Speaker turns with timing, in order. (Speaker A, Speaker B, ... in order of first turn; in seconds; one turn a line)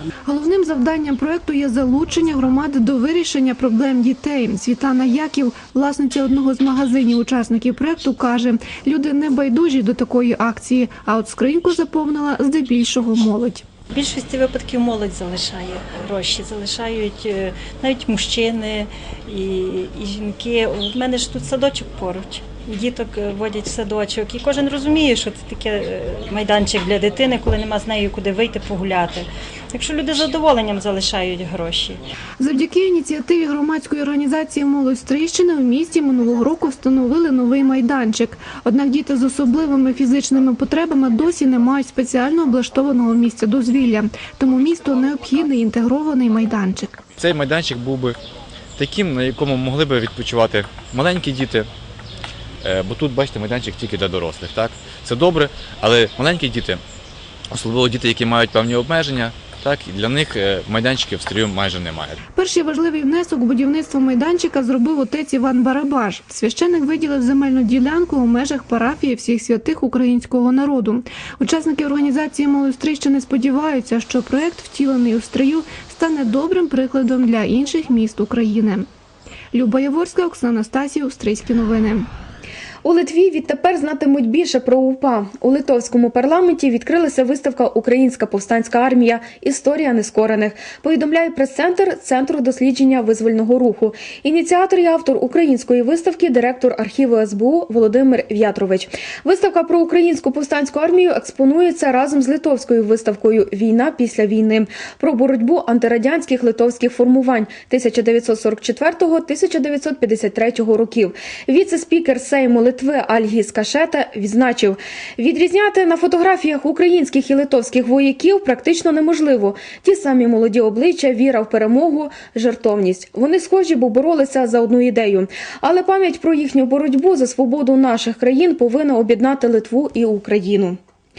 Speaker A: 0.3-13.7
Speaker B: 13.9-32.0
Speaker A: 32.4-47.0
Speaker C: 47.2-48.2
Speaker C: 48.8-51.7
Speaker C: 52.6-56.8
Speaker C: 57.5-62.2
Speaker A: 62.4-78.9
Speaker A: 79.5-82.1
Speaker D: 82.8-130.8